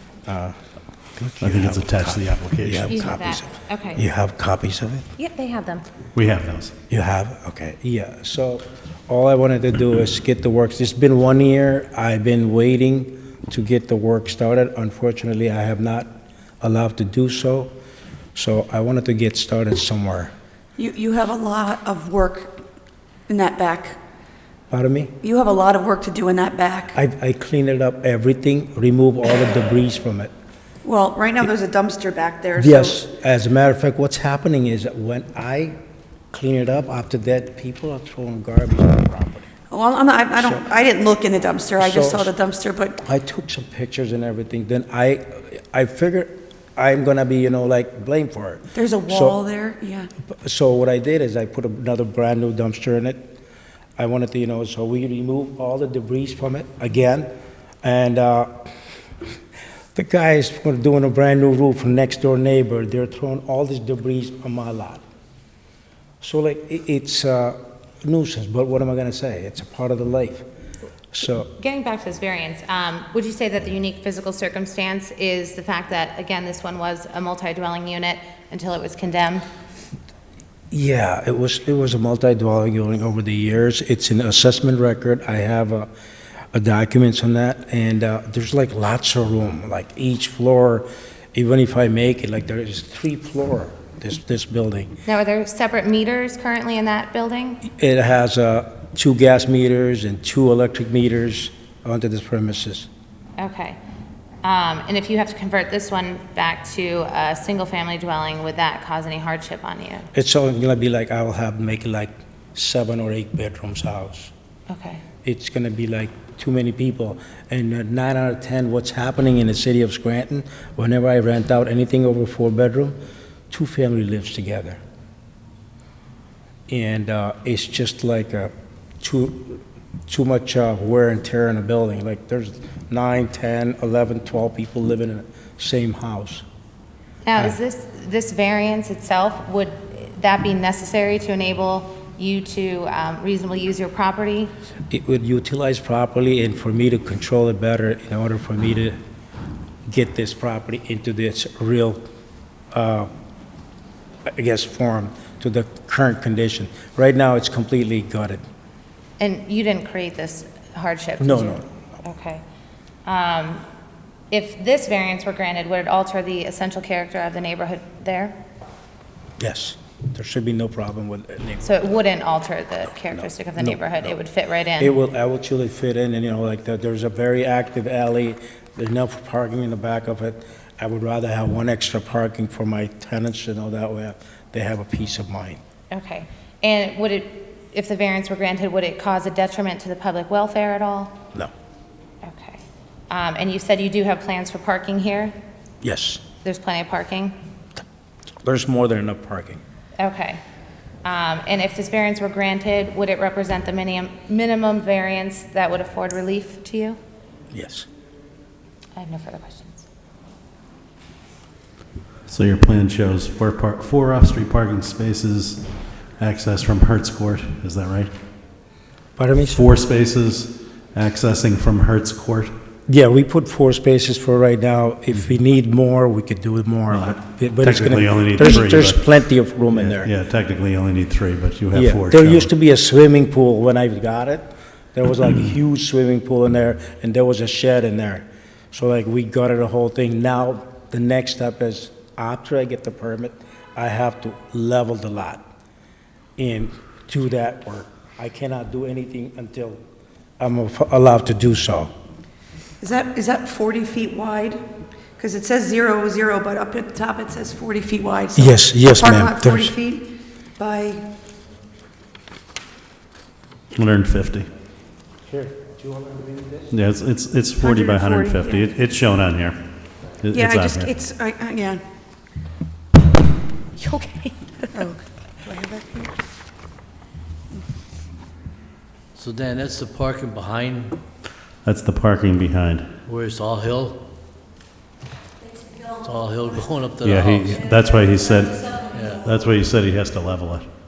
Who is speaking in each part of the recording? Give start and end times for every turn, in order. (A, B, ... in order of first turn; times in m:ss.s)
0:00.3-0:00.6 A
0:01.2-0:05.1 A
0:01.4-0:03.0 B
0:02.9-0:04.0 C
0:05.2-0:05.8 C
0:06.1-0:06.7 B
0:06.9-0:17.7 A
0:18.3-0:20.3 A
0:20.8-0:22.6 D
0:23.3-0:24.0 D
0:24.7-0:25.1 A
0:25.2-0:27.0 D
0:26.9-0:30.3 A
0:30.8-0:33.0 D
0:32.6-0:35.8 A
0:36.3-0:39.5 A
0:39.7-0:43.0 D
0:41.8-0:42.3 A
0:43.0-0:49.4 A
0:48.7-0:50.1 D
0:50.2-0:53.3 A
0:54.0-0:57.3 A
0:57.8-0:58.7 A
0:59.9-1:05.0 A
1:06.2-1:10.4 A
1:11.1-1:11.5 A
1:11.6-1:19.4 C
1:20.7-1:25.9 A
1:26.5-1:34.9 A
1:35.0-1:37.6 C
1:37.6-1:42.9 A
1:43.4-1:43.8 C
1:44.4-1:50.1 C
1:50.1-1:54.3 A
1:54.7-1:55.0 C
1:55.2-2:03.0 A
2:03.5-2:04.8 A
2:06.7-2:16.4 A
2:17.2-2:24.5 C
2:24.9-2:29.0 A
2:29.9-2:32.0 A
2:32.7-2:33.1 A
2:34.2-2:38.4 A
2:39.2-2:42.4 C
2:41.2-2:41.6 A
2:43.0-2:43.6 C
2:44.3-2:48.4 C
2:49.4-2:51.9 A
2:51.6-2:55.0 C
2:53.0-2:54.2 A
2:54.8-3:05.6 A
3:05.9-3:11.2 C
3:12.2-3:15.4 C
3:15.8-3:16.2 A
3:16.4-3:17.3 C
3:18.4-3:19.6 A
3:20.0-3:20.4 C
3:21.0-3:27.0 C
3:27.5-3:27.9 A
3:29.0-3:29.8 C
3:32.3-3:35.6 B
3:36.2-3:38.1 B
3:39.2-3:39.6 A
3:39.4-3:42.5 B
3:42.9-3:50.1 A
3:46.9-3:49.0 B
3:49.7-3:52.5 B
3:51.7-4:05.4 A
4:06.4-4:09.8 A
4:10.4-4:11.9 A
4:12.8-4:14.6 D
4:15.2-4:21.0 D
4:18.4-4:19.7 A
4:23.7-4:24.5 B
4:25.3-4:26.7 A
4:26.7-4:29.6 B
4:27.6-4:28.6 D
4:30.2-4:30.9 B
4:30.3-4:31.8 D
4:34.7-4:36.1 D
4:39.1-4:41.0 E
4:41.6-4:42.9 B
4:43.0-4:44.0 E
4:45.8-4:47.7 E
4:47.0-4:50.7 B
4:48.9-4:49.2 E